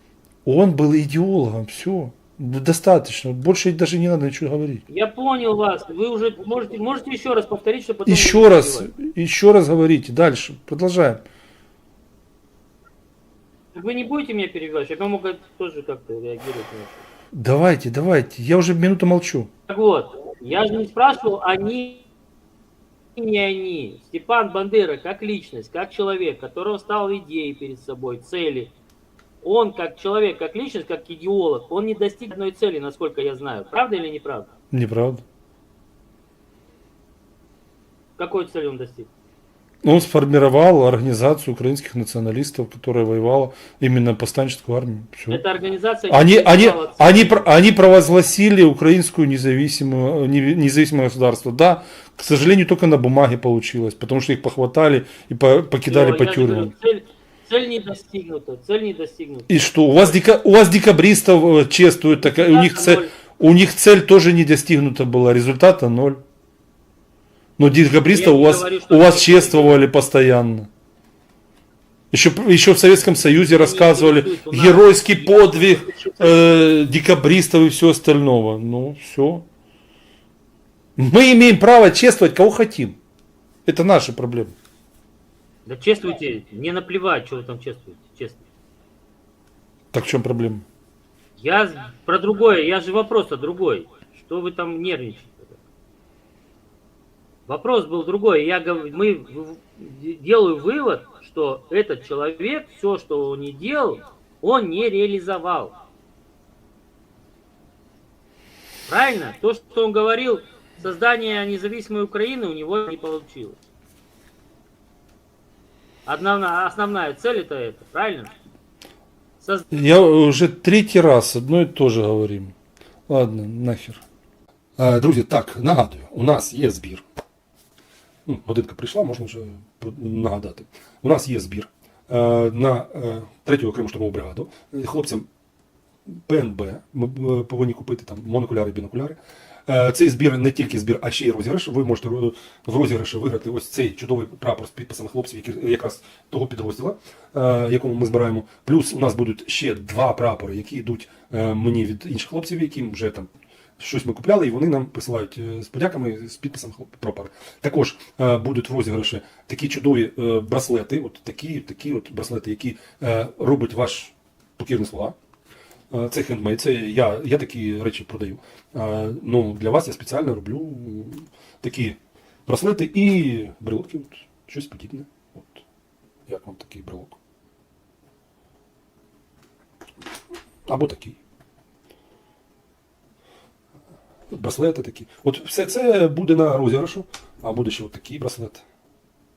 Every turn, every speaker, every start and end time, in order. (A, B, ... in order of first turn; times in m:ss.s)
0:00.4-0:04.8 A
0:04.9-0:08.9 B
0:08.0-0:11.2 A
0:13.7-0:17.0 B
0:17.3-0:19.5 A
0:19.7-0:22.0 B
0:23.2-0:28.7 B
0:29.4-0:34.5 B
0:34.7-0:35.2 A
0:38.2-0:39.1 B
0:39.8-0:45.4 A
0:45.3-0:47.5 B
0:46.1-0:56.7 A
0:55.8-1:00.1 B
0:59.5-1:06.2 A
1:02.2-1:03.1 B
1:07.6-1:10.7 A
1:08.1-1:09.8 B
1:12.1-1:19.4 A
1:13.4-1:16.4 B
1:21.0-1:23.0 A
1:23.6-1:24.6 A
1:25.6-1:28.4 B
1:29.9-1:30.6 A
1:31.4-1:35.6 B
1:37.5-1:45.8 B
1:48.9-1:53.6 B
1:56.0-1:58.3 B
1:59.4-1:59.7 B
1:59.7-2:02.5 A
2:03.1-2:04.0 A
2:04.8-2:07.0 C
2:08.2-2:15.2 C
2:16.1-2:45.2 C
2:45.9-2:55.6 C
2:56.3-2:57.2 C
3:00.7-3:01.2 C
3:04.3-3:08.6 C